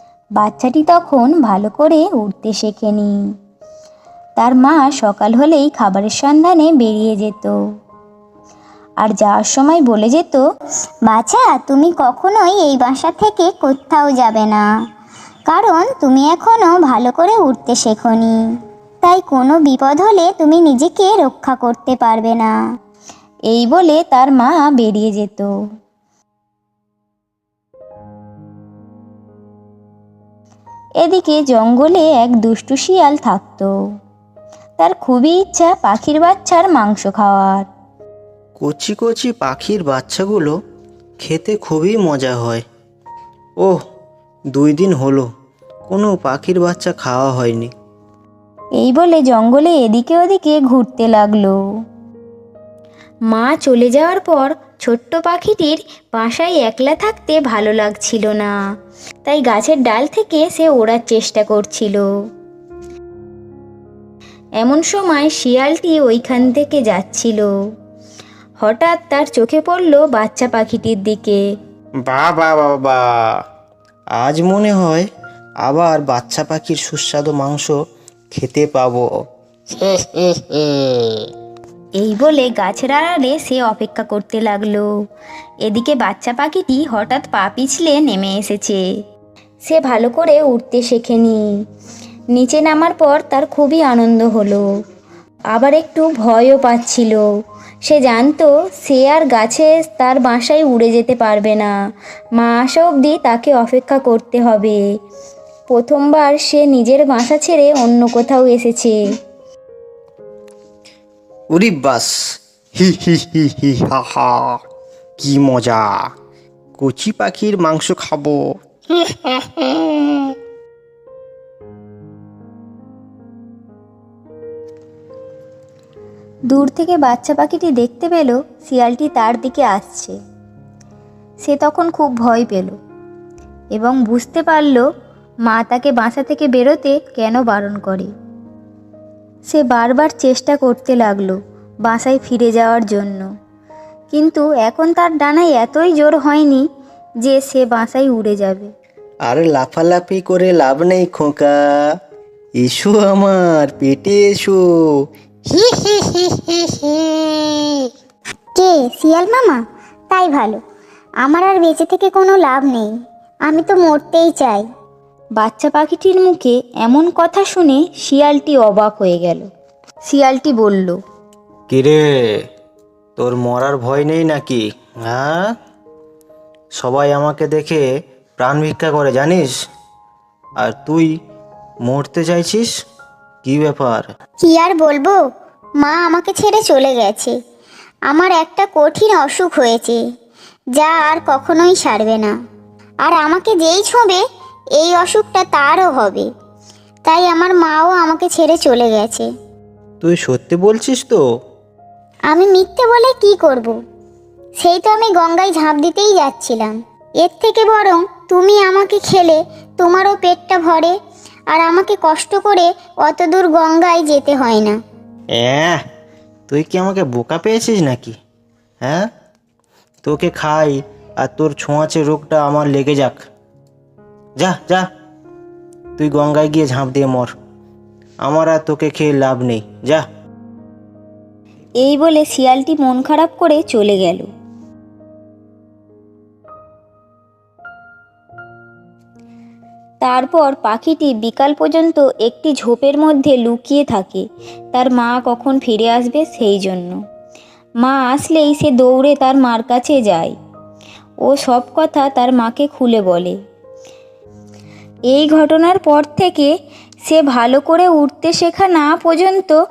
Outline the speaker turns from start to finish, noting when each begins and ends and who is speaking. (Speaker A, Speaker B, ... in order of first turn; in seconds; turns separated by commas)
Speaker A: 0.4-3.2, Speaker A: 4.4-7.6, Speaker A: 9.0-10.4, Speaker B: 11.1-14.7, Speaker B: 15.5-18.4, Speaker B: 19.0-22.6, Speaker A: 23.5-25.5, Speaker A: 31.0-33.7, Speaker A: 34.8-37.7, Speaker C: 38.6-40.5, Speaker C: 41.2-42.6, Speaker C: 44.5-45.3, Speaker C: 45.9-47.7, Speaker A: 48.8-51.6, Speaker A: 53.3-58.5, Speaker A: 59.2-62.1, Speaker A: 64.6-67.5, Speaker A: 68.6-71.4, Speaker C: 72.0-73.0, Speaker C: 74.2-75.1, Speaker C: 75.6-77.8, Speaker C: 78.3-79.0, Speaker C: 79.7-81.2, Speaker A: 82.0-84.9, Speaker A: 85.6-88.8, Speaker A: 89.6-91.4, Speaker A: 92.3-94.7, Speaker A: 95.5-97.2, Speaker A: 97.8-101.7, Speaker A: 102.4-104.8, Speaker A: 105.7-109.0, Speaker C: 111.5-112.2, Speaker C: 112.8-114.6, Speaker C: 115.2-116.0, Speaker C: 116.8-120.2, Speaker A: 126.5-130.2, Speaker A: 131.4-132.8, Speaker A: 133.7-134.8, Speaker A: 135.5-138.1, Speaker A: 139.5-141.3, Speaker A: 141.9-143.2, Speaker A: 144.1-146.6, Speaker A: 147.2-148.7, Speaker C: 149.3-151.6, Speaker C: 152.6-154.7, Speaker C: 155.5-157.8, Speaker B: 158.6-160.6, Speaker B: 161.2-162.9, Speaker B: 163.5-164.7, Speaker A: 165.4-169.5, Speaker A: 170.1-171.0, Speaker C: 171.7-172.4, Speaker C: 173.2-175.5, Speaker C: 176.8-177.8, Speaker C: 178.4-179.5, Speaker C: 180.6-181.1, Speaker C: 181.9-182.7, Speaker C: 183.4-184.1, Speaker B: 184.4-185.2, Speaker B: 185.8-187.3, Speaker B: 188.1-190.0, Speaker B: 190.8-192.3, Speaker B: 193.0-194.2, Speaker B: 194.8-196.3, Speaker B: 197.1-199.3, Speaker C: 200.0-201.2, Speaker B: 202.3-203.7, Speaker B: 204.6-210.9, Speaker B: 211.5-214.8, Speaker C: 215.4-215.8, Speaker C: 216.5-218.2, Speaker C: 218.8-219.1, Speaker C: 220.0-223.2, Speaker C: 224.4-224.9, Speaker C: 226.0-227.3, Speaker C: 228.2-230.1, Speaker A: 231.8-234.3, Speaker A: 240.0-247.0, Speaker A: 247.8-250.3, Speaker A: 251.3-253.4, Speaker A: 255.1-256.5, Speaker A: 257.1-259.6